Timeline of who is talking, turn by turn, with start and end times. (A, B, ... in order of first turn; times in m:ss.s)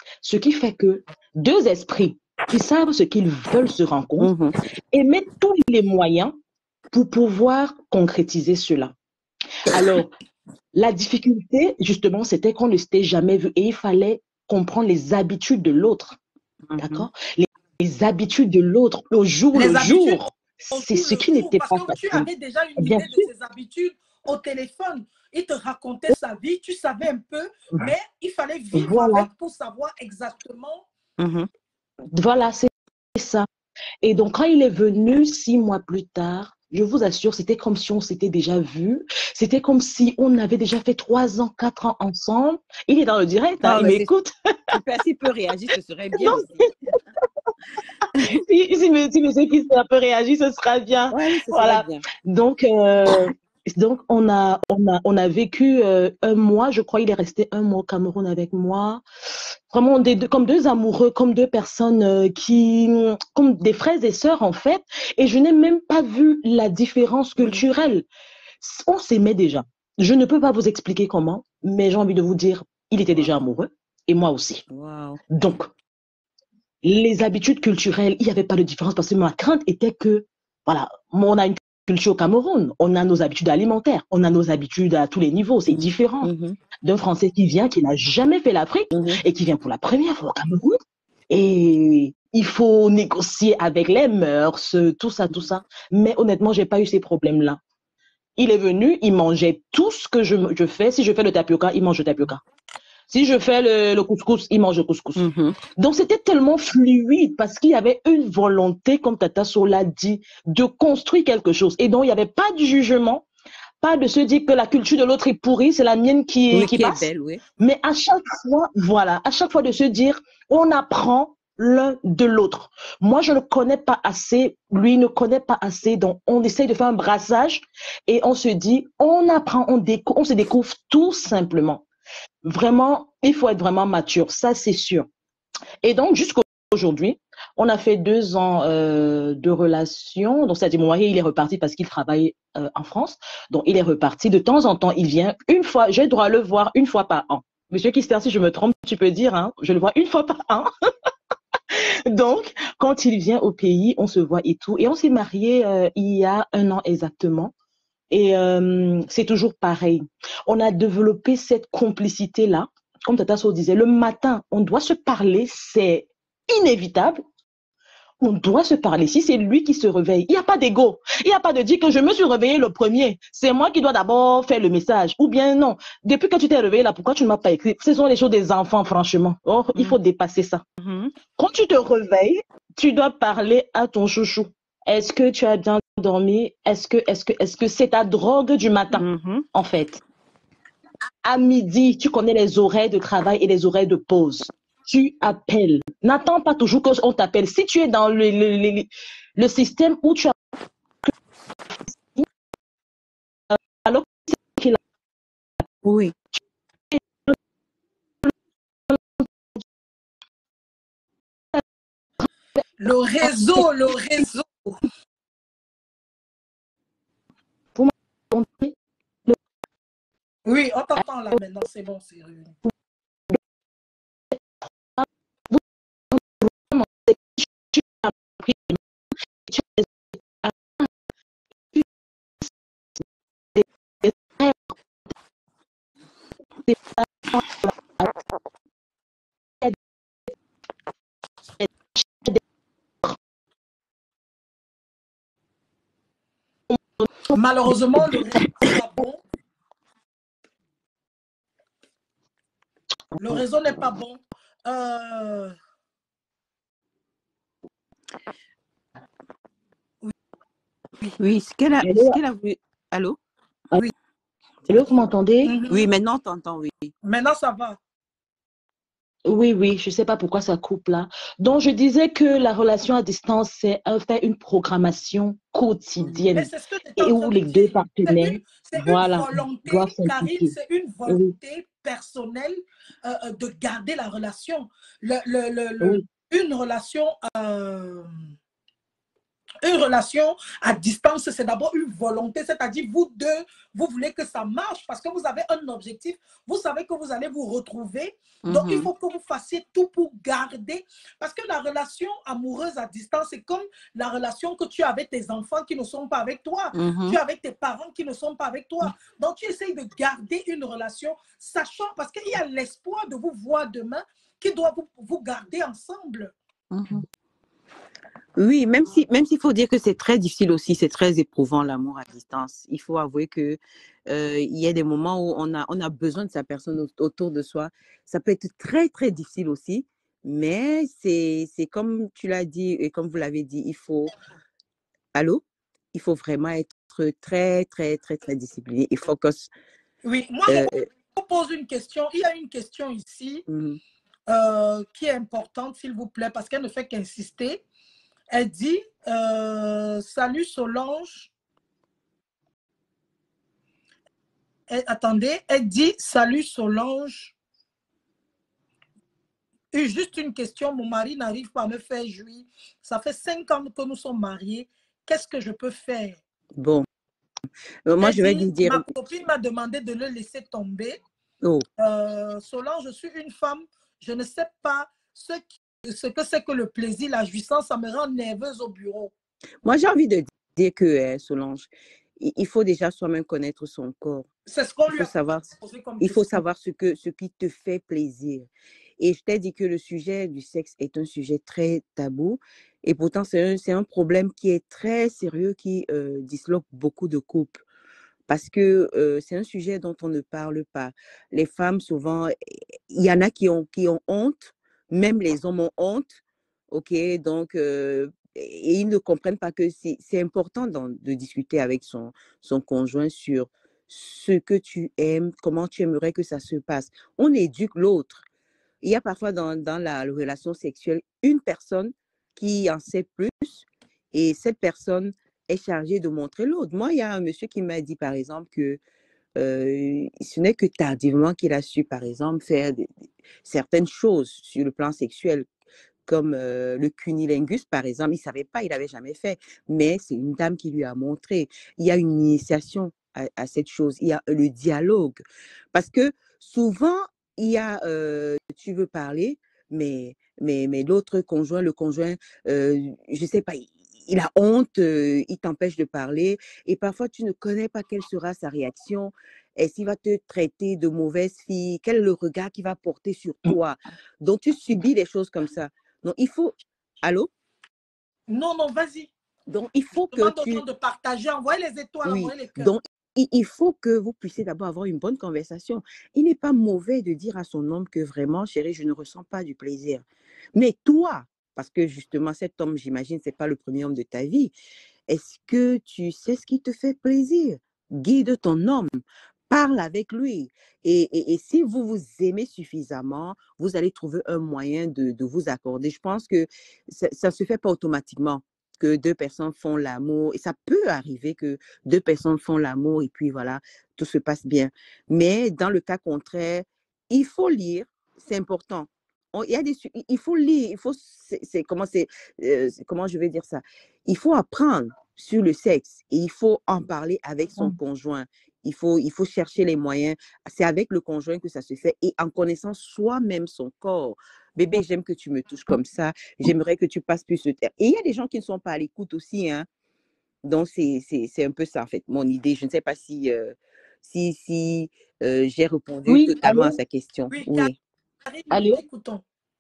0:00.2-0:04.3 A
0:04.2-0:04.5 B
0:04.9-0:06.3 A
0:06.9-0:09.0 A
0:09.6-0:10.1 A
0:10.8-0:16.2 A
0:16.7-0:17.1 B
0:16.8-0:22.3 A
0:19.5-0:30.9 C
0:22.8-0:23.3 A
0:28.8-0:29.3 A
0:31.2-0:31.5 B
0:32.1-0:33.5 A
0:34.0-0:44.3 A
0:43.6-0:44.1 B
0:44.7-0:46.7 B
0:46.1-0:46.9 A
0:48.3-0:59.0 A
0:51.1-0:52.0 B
0:59.7-1:08.1 A
1:07.4-1:07.6 B
1:08.6-1:14.6 A
1:14.7-1:15.2 B
1:15.3-1:15.7 A
1:16.8-1:26.3 A
1:25.7-1:26.6 B
1:26.8-1:37.6 A
1:28.9-1:29.2 B
1:38.4-1:42.4 A
1:43.1-1:53.2 A
1:45.2-1:45.6 B
1:53.8-1:57.1 A
1:56.5-1:57.4 B
1:57.6-2:11.8 A
2:12.4-2:15.1 A
2:15.8-2:30.7 A
2:31.7-2:37.5 A
2:38.1-2:47.2 A
2:48.2-3:00.6 A
3:00.8-3:01.1 B
3:01.4-3:10.0 A
3:08.9-3:09.5 B
3:11.2-3:20.4 A
3:23.5-3:24.8 A
3:25.8-3:26.2 B
3:26.9-3:27.4 A
3:28.9-3:29.6 A
3:32.8-3:34.8 C
3:37.8-3:38.7 A
3:40.5-3:42.6 C
3:45.0-3:48.8 A
3:49.5-3:49.9 A
3:50.4-3:50.9 A
3:53.6-3:54.7 A
3:56.7-3:58.1 A
4:01.6-4:02.4 A
4:07.3-4:09.2 C
4:13.2-4:15.5 C
4:21.2-4:23.2 B
4:21.8-4:22.2 A
4:24.7-4:25.6 A
4:25.4-4:25.9 C
4:25.7-4:26.9 B
4:27.0-4:27.8 C
4:29.3-4:40.5 A
4:36.3-4:48.1 C
4:41.1-4:41.3 A
4:49.6-5:16.3 C
4:58.4-4:58.9 B
5:06.7-5:07.2 B
5:16.7-5:17.0 B
5:18.4-5:34.1 B
5:35.1-5:35.4 B
5:35.9-5:39.5 B
5:40.0-5:43.4 C
5:40.5-5:40.8 B
5:43.5-5:43.8 B
5:44.3-5:47.6 C
5:48.3-5:51.3 C
5:54.7-5:57.4 C
5:59.7-6:06.2 C
6:06.6-6:06.9 B
6:07.9-6:08.9 B
6:08.0-6:11.0 C
6:11.8-6:19.1 C
6:19.6-6:24.3 B
6:24.5-6:26.4 C
6:24.9-6:25.5 B
6:26.0-6:37.6 B
6:38.3-6:42.3 B
6:42.9-6:46.2 B
6:46.7-6:58.2 B
6:58.8-7:08.8 B
7:09.4-7:12.9 B
7:13.4-7:15.5 B
7:16.1-7:25.2 B
7:25.7-7:47.3 B
7:48.3-7:49.1 C
7:49.5-7:50.6 B
7:49.9-7:52.7 C
7:52.0-8:00.0 B
8:00.6-8:04.5 B
8:05.1-8:08.9 B
8:09.5-8:49.7 B
8:50.4-8:57.7 B
8:56.1-8:56.8 A
8:57.3-8:57.7 C
8:58.3-8:59.2 C
8:58.5-8:58.8 A